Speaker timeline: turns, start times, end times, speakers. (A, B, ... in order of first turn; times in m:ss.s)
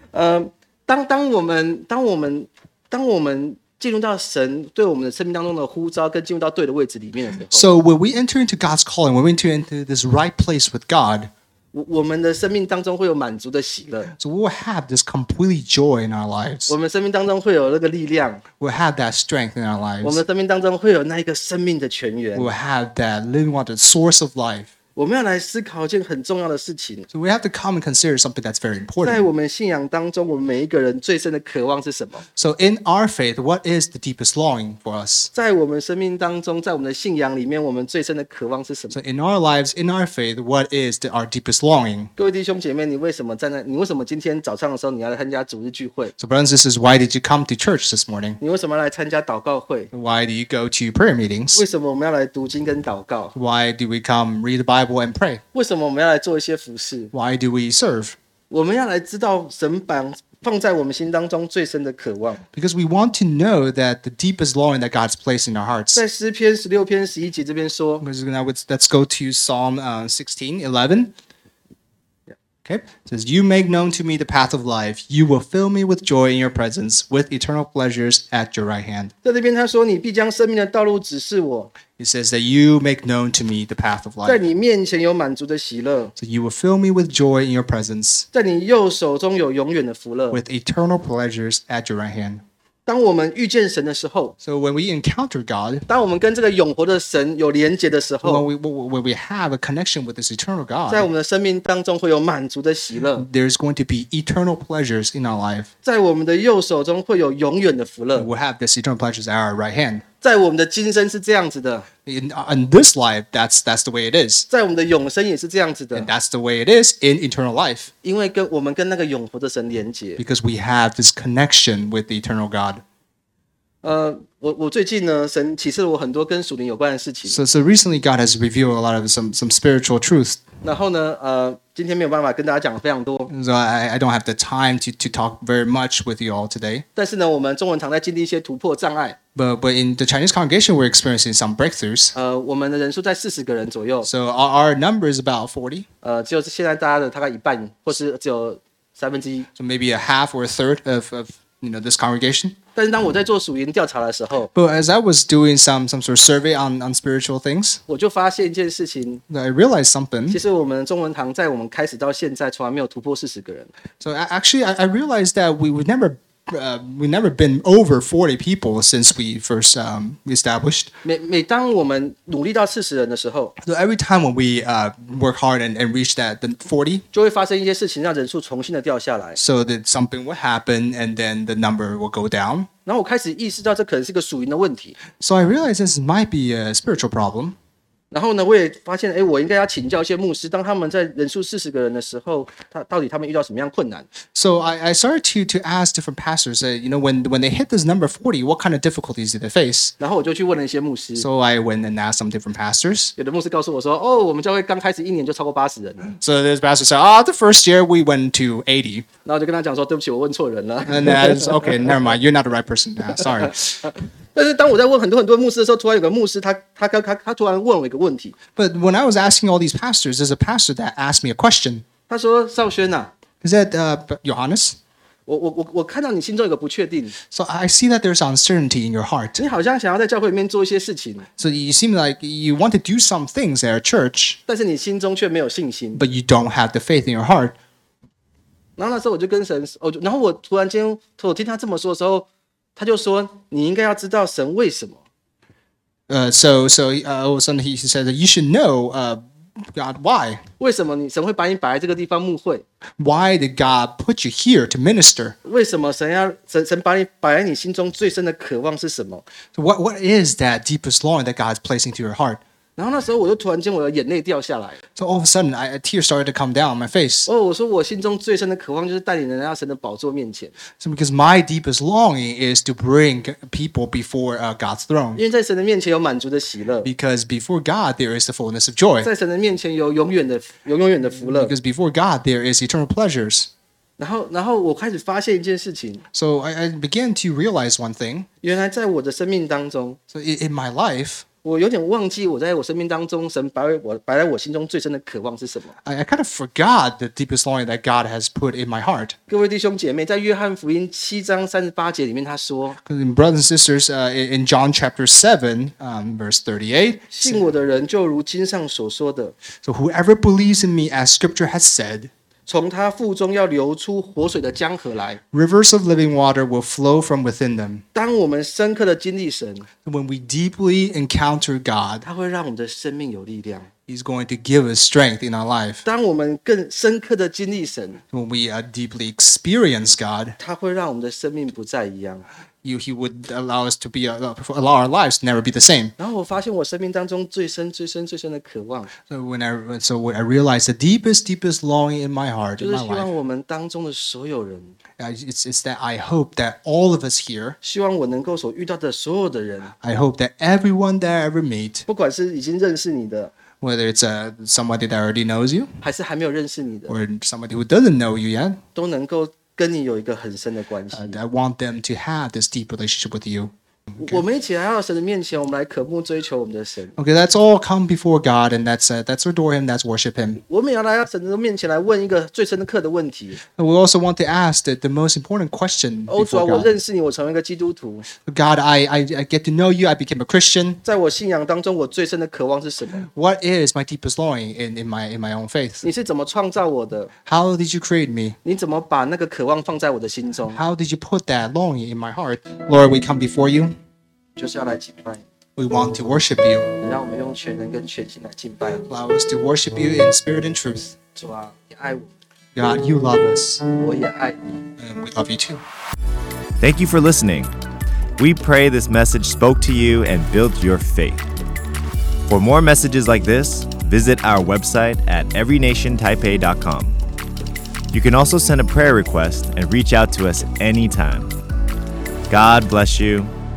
0:00.1-0:07.7 A
0:07.5-0:11.3 B
0:11.7-0:14.1 A
0:14.1-0:16.7 B
0:16.7-0:18.4 A
0:18.6-0:20.2 B
0:20.0-0:22.5 A
0:22.3-0:24.7 B
0:25.0-0:27.1 A
0:27.1-0:29.3 B
0:29.0-0:32.2 A
0:32.4-0:35.3 B
0:35.3-0:39.0 A
0:38.9-0:42.1 B
0:42.2-0:46.1 A
0:46.2-0:48.4 B
0:48.4-0:49.9 A
0:49.9-0:51.6 B
0:51.5-0:53.3 A
0:53.3-0:55.4 B
0:55.5-0:57.1 A
0:57.1-0:58.2 B
0:58.5-1:02.4 A
1:02.5-1:06.0 B
1:05.9-1:08.0 A
1:08.0-1:11.1 B
1:12.6-1:19.1 B
1:19.2-1:21.7 A
1:22.0-1:24.4 B
1:24.2-1:26.1 A
1:26.2-1:28.3 B
1:28.3-1:30.4 A
1:30.3-1:32.4 B
1:32.8-1:34.3 A
1:34.4-1:35.9 B
1:35.9-1:38.4 A
1:38.2-1:41.1 B
1:40.9-1:43.2 A
1:43.1-1:45.7 B
1:45.8-1:48.3 A
1:48.1-1:50.0 B
1:50.2-1:51.9 A
1:52.0-1:54.5 B
1:54.5-1:56.1 A
1:55.9-1:57.9 B
1:58.0-2:00.2 A
2:00.2-2:02.8 B
2:03.8-2:07.4 A
2:07.3-2:10.4 B
2:10.6-2:13.3 A
2:13.3-2:16.8 B
2:17.0-2:19.2 A
2:19.3-2:22.1 B
2:22.1-2:24.1 A
2:24.0-2:25.9 B
2:26.0-2:29.5 A
2:29.5-2:32.5 B
2:32.7-2:34.5 A
2:34.5-2:37.8 B
2:37.9-2:39.2 A
2:39.3-2:40.4 B
2:40.3-2:43.7 A
2:44.0-2:50.9 B
2:51.0-2:53.5 A
2:53.6-2:57.0 B
2:57.1-2:59.4 A
2:59.4-3:02.7 B
3:02.8-3:05.0 A
3:05.2-3:07.6 B
3:08.1-3:14.1 A
3:14.3-3:19.9 B
3:20.0-3:21.2 A
3:21.2-3:23.1 B
3:23.2-3:26.1 A
3:26.2-3:29.0 B
3:29.2-3:31.8 A
3:30.9-3:33.9 B
3:33.8-3:38.4 A
3:38.6-3:41.8 B
3:42.1-3:43.1 A
3:43.4-3:44.8 B
3:45.3-3:47.2 A
3:47.3-3:49.4 B
3:49.4-3:51.3 A
3:51.4-3:54.4 B
3:54.5-3:56.0 A
3:55.9-3:57.6 B
3:58.8-4:05.0 A
4:06.1-4:10.4 B
4:10.6-4:12.6 A
4:13.0-4:15.4 B
4:15.4-4:19.2 A
4:19.5-4:22.4 B
4:22.8-4:24.8 A
4:25.0-4:27.3 B
4:27.3-4:30.5 A
4:30.8-4:35.2 B
4:35.2-4:36.9 A
4:36.8-4:39.1 B
4:39.0-4:41.5 A
4:41.2-4:43.5 B
4:44.0-4:46.0 A
4:46.1-4:48.3 B
4:48.4-4:50.0 A
4:50.1-4:51.2 B
4:51.4-4:55.7 A
4:55.8-4:59.2 B
4:59.3-5:02.8 A
5:02.8-5:07.5 B
5:07.1-5:09.4 A
5:09.6-5:12.1 B
5:12.5-5:15.2 A
5:15.3-5:17.8 B
5:17.9-5:19.6 A
5:19.8-5:22.0 B
5:22.0-5:23.7 A
5:23.9-5:25.8 B
5:25.8-5:28.0 A
5:28.1-5:30.4 B
5:30.4-5:32.2 A
5:32.6-5:35.9 B
5:36.0-5:38.9 A
5:39.1-5:43.1 B
5:42.6-5:44.8 A
5:45.0-5:47.6 B
5:47.6-5:49.7 A
5:49.8-5:51.9 B
5:51.9-5:53.3 A
5:53.6-5:55.7 B
5:55.8-5:57.0 A
5:56.9-5:58.6 B
5:58.7-6:01.2 A
6:00.9-6:04.2 B
6:04.0-6:07.0 A
6:07.0-6:10.4 B
6:10.5-6:13.4 A
6:13.5-6:16.8 B
6:16.1-6:18.0 A
6:18.2-6:20.8 B
6:20.8-6:23.1 A
6:23.1-6:25.8 B
6:25.8-6:27.1 A
6:27.2-6:28.4 B
6:28.4-6:30.6 A
6:30.5-6:33.8 B
6:34.4-6:35.2 A
6:35.6-6:36.7 B
6:36.8-6:38.9 A
6:38.9-6:41.0 B
6:41.1-6:42.1 A
6:42.5-6:43.6 B
6:43.8-6:44.5 A
6:44.8-6:45.6 B
6:46.6-6:47.5 C
6:48.2-6:51.2 C
6:52.2-6:57.0 C
6:57.9-7:01.3 C
7:02.3-7:03.3 C